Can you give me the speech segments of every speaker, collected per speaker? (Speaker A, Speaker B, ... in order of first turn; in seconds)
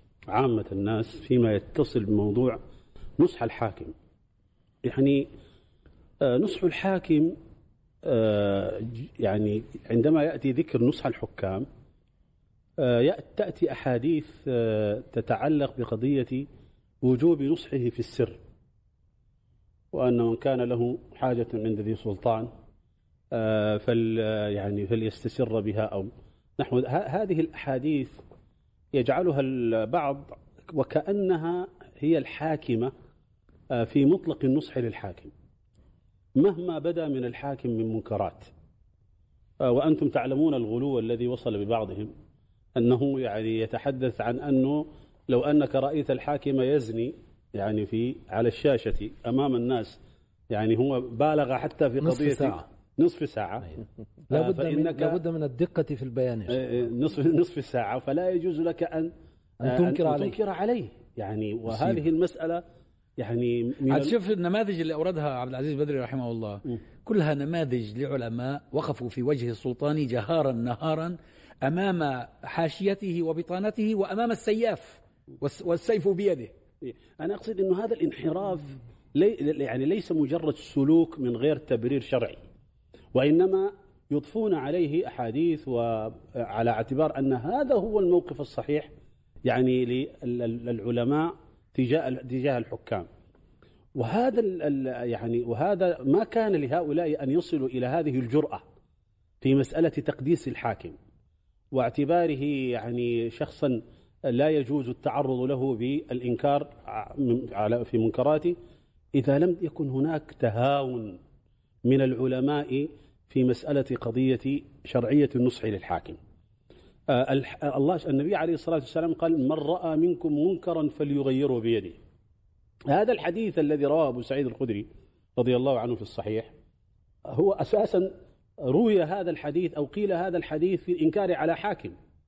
Speaker A: 0.3-2.6, 3.2-3.9, 4.8-5.3, 6.2-7.3, 8.0-11.7, 12.8-16.4, 17.0-18.4, 19.9-22.5, 23.3-28.2, 28.9-32.9, 33.7-35.3, 36.4-38.5, 39.6-42.1, 42.8-50.0, 50.5-55.2, 56.5-59.1, 59.6-62.6, 63.2-64.2, 76.8-82.4, 83.1-88.9, 89.5-93.1, 94.0-98.6, 99.4-100.9, 101.7-108.6, 109.1-111.2, 111.8-116.2, 117.1-122.0, 122.9-126.5, 127.3-128.1, 128.6-131.9
Speaker B: 52.0-52.6, 54.3-56.6, 59.6-60.4
Speaker C: 61.7-62.0, 63.9-76.5